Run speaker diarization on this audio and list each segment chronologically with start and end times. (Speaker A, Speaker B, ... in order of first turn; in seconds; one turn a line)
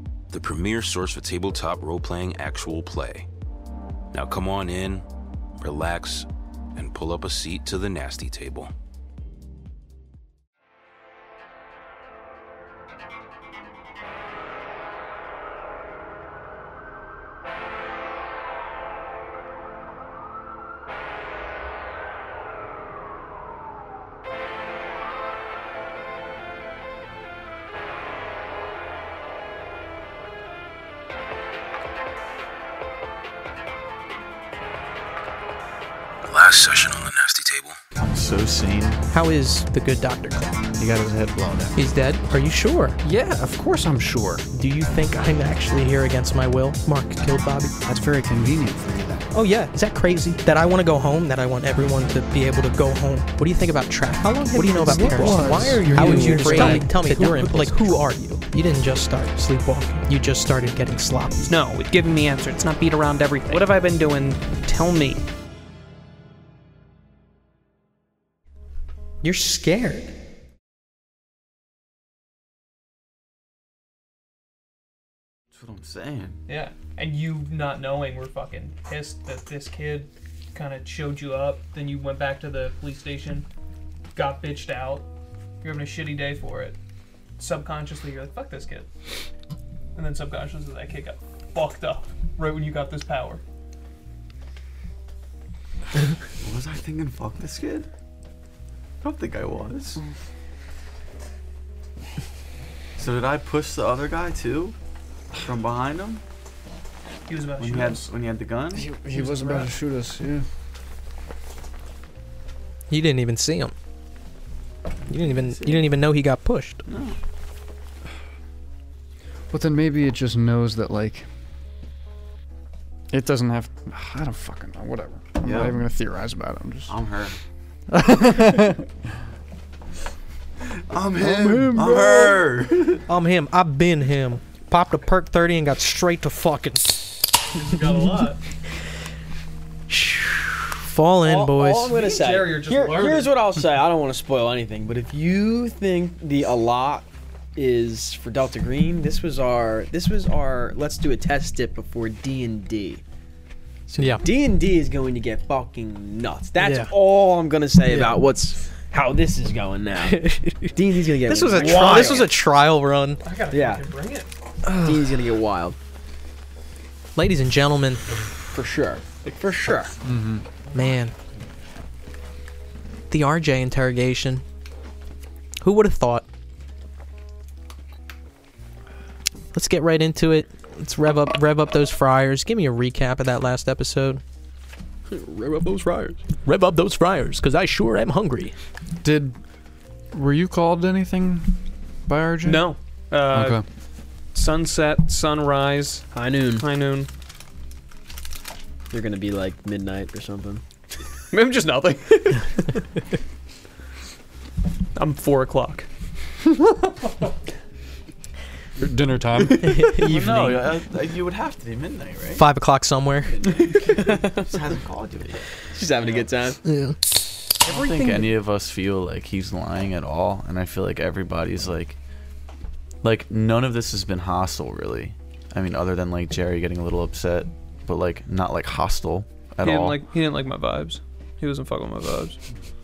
Speaker A: 0.3-3.3
Speaker A: 4.1-5.0
Speaker A: 5.6-8.7
Speaker A: 36.3-37.8
Speaker B: 37.9-39.0
Speaker C: 39.1-40.5
Speaker D: 40.8-41.7
Speaker C: 41.7-43.0
Speaker D: 43.0-44.5
Speaker C: 44.5-47.7
Speaker D: 47.8-49.3
Speaker C: 49.3-61.5
Speaker E: 54.5-58.0
Speaker F: 55.2-55.5
Speaker D: 55.2-57.0
Speaker F: 56.0-56.9
Speaker E: 61.5-65.2
Speaker C: 69.2-70.1
Speaker B: 75.5-76.4
Speaker E: 76.5-83.5
Speaker E: 84.1-85.1
Speaker E: 85.6-86.8
Speaker E: 87.4-88.9
Speaker E: 89.9-93.4
Speaker B: 96.4-97.9
Speaker B: 99.0-100.0
Speaker B: 103.0-104.8
Speaker B: 105.3-106.2
Speaker E: 107.3-108.1
Speaker B: 107.6-108.8
Speaker D: 108.7-110.5
Speaker E: 109.2-109.7
Speaker C: 112.9-113.7
Speaker C: 115.1-116.8
Speaker B: 116.8-117.2
Speaker D: 119.5-121.3
Speaker D: 123.1-127.0
Speaker B: 125.4-125.8
Speaker B: 126.9-127.4
Speaker D: 127.9-128.9
Speaker B: 130.9-133.0
Speaker D: 131.2-132.4
Speaker C: 133.1-137.1
Speaker E: 137.5-138.4
Speaker C: 139.9-141.9
Speaker F: 141.2-153.0
Speaker E: 141.9-143.3
Speaker C: 153.9-154.2
Speaker F: 154.1-162.3
Speaker C: 156.6-156.9
Speaker C: 157.9-158.1
Speaker C: 160.0-163.2
Speaker E: 161.5-162.3
Speaker E: 163.2-164.3
Speaker F: 163.5-163.8
Speaker C: 164.6-165.0
Speaker F: 164.7-165.8
Speaker C: 167.1-168.0
Speaker F: 168.5-170.0
Speaker D: 170.0-170.4
Speaker C: 170.7-171.1
Speaker C: 173.1-174.4
Speaker C: 175.6-176.2
Speaker C: 179.5-184.2
Speaker F: 185.1-186.2
Speaker C: 186.4-188.5
Speaker D: 189.0-192.7
Speaker E: 192.4-197.1
Speaker D: 193.3-193.7
Speaker F: 196.1-196.6
Speaker F: 198.9-200.6
Speaker E: 201.3-202.8
Speaker E: 204.9-205.9
Speaker D: 208.8-210.0
Speaker C: 209.7-210.5
Speaker B: 209.9-212.4
Speaker C: 212.4-213.4
Speaker B: 213.4-216.2
Speaker F: 213.9-214.5
Speaker F: 215.7-216.6
Speaker C: 216.6-217.0
Speaker B: 217.6-222.0
Speaker B: 223.0-230.0
Speaker E: 229.6-232.4